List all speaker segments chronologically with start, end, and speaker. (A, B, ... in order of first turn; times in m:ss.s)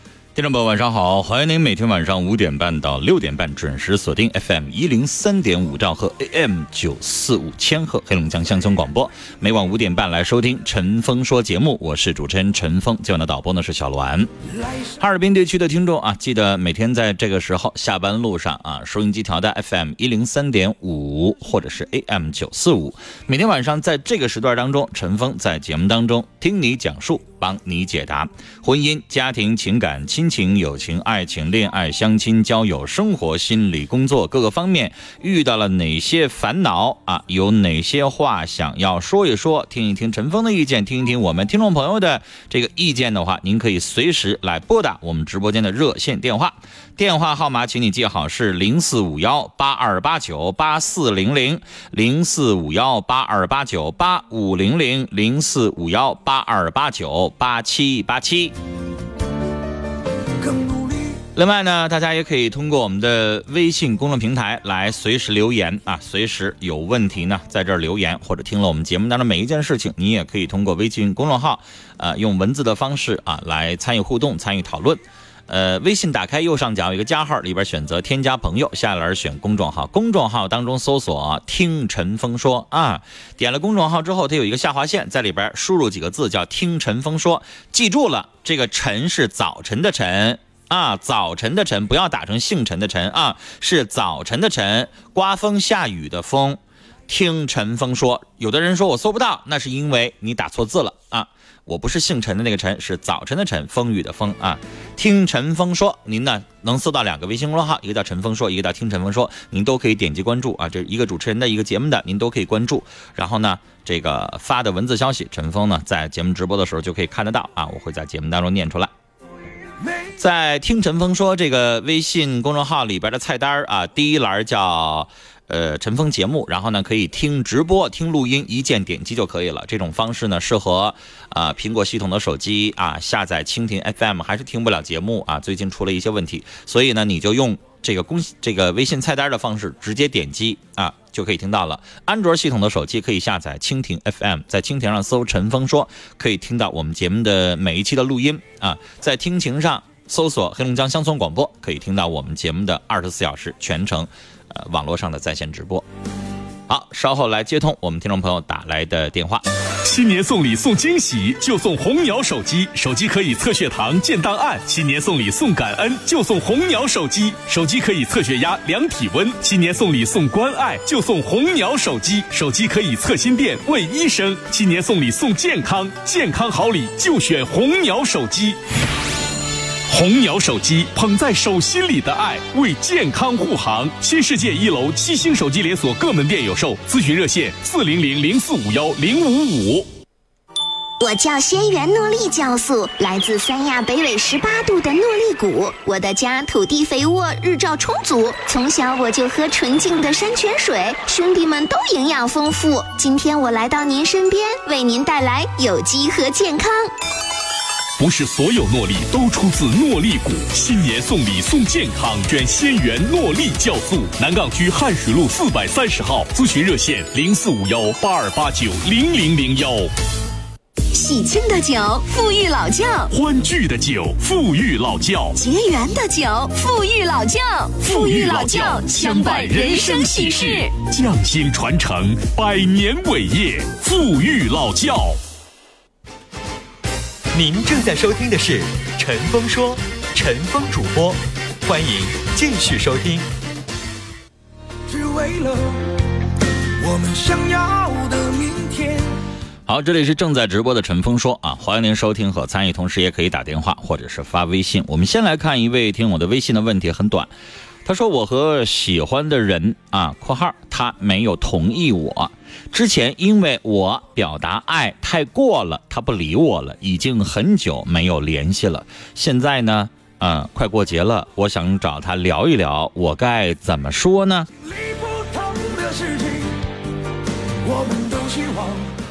0:00.4-0:14.3 A
0:14.5-0:15.0 B
0:15.0-0:58.5 A
1:00.4-1:01.2 B
1:01.4-1:58.9 A
1:59.8-2:00.1 B
2:00.2-2:35.8 A
2:36.7-2:39.4 A
2:39.8-2:58.6 C
2:59.9-3:09.9 C
3:11.0-3:26.9 D
3:28.0-3:39.9 C
3:40.9-3:43.1 D
3:43.1-3:45.4 C
3:45.4-3:50.8 D
3:47.8-3:55.2 C
3:57.3-4:03.3 E
4:04.9-4:05.9 B
4:06.8-4:09.1 B
4:09.7-4:17.3 A
4:17.8-4:34.5 A
4:34.6-4:36.6 B
4:37.6-4:38.9 B